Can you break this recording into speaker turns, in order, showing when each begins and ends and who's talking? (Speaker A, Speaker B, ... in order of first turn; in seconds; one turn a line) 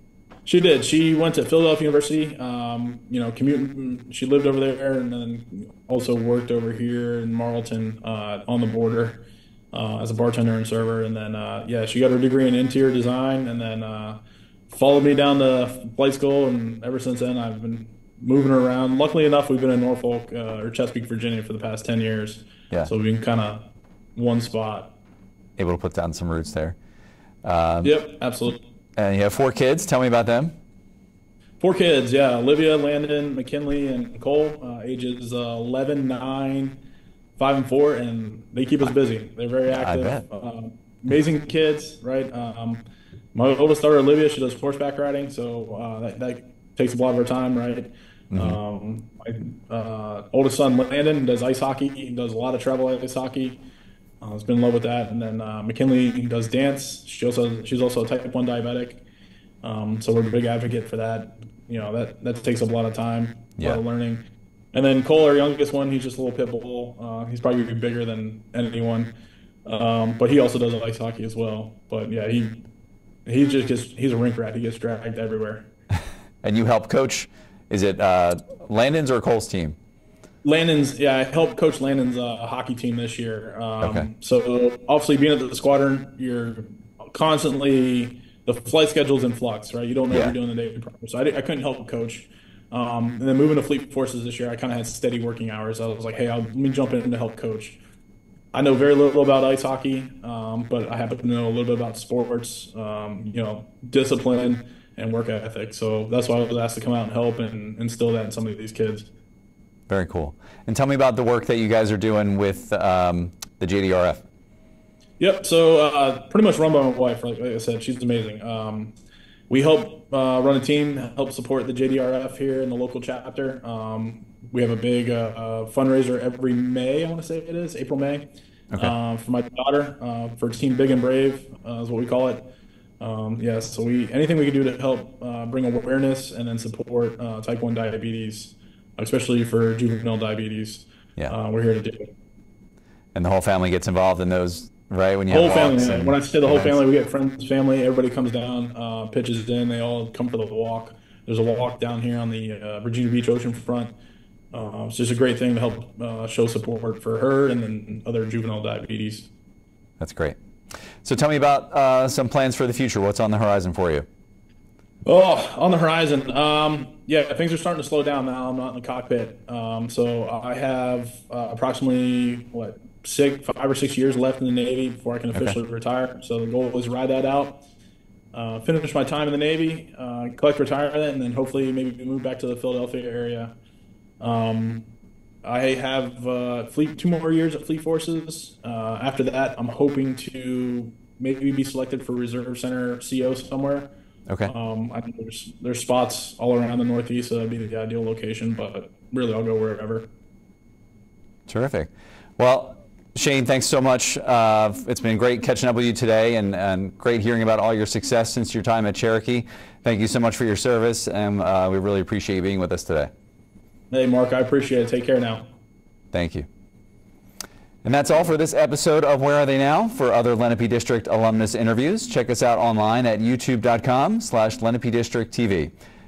Speaker A: 0.5-24.9
Speaker B: 25.6-26.8
Speaker B: 27.4-28.0
Speaker A: 27.8-28.6
Speaker B: 29.0-30.5
Speaker A: 31.6-36.8
Speaker A: 37.4-42.8
Speaker B: 39.7-40.2
Speaker A: 43.3-53.6
Speaker B: 48.3-48.6
Speaker A: 54.2-59.0
Speaker A: 59.6-69.1
Speaker A: 69.6-72.6
Speaker A: 73.2-75.7
Speaker B: 76.4-79.8
Speaker A: 80.4-97.8
Speaker B: 83.8-84.1
Speaker A: 98.5-109.1
Speaker B: 109.9-114.2
Speaker A: 115.2-118.9
Speaker A: 119.5-128.3
Speaker A: 128.8-132.4
Speaker A: 133.0-142.1
Speaker B: 143.1-146.8
Speaker A: 145.3-153.9
Speaker A: 154.5-159.3
Speaker B: 160.0-160.3
Speaker B: 161.0-164.1
Speaker A: 165.1-177.6
Speaker A: 178.3-183.5
Speaker A: 184.2-184.9
Speaker A: 185.4-193.9
Speaker A: 194.4-200.1
Speaker B: 201.5-213.1
Speaker A: 213.9-215.5
Speaker B: 216.1-216.5
Speaker B: 217.8-225.7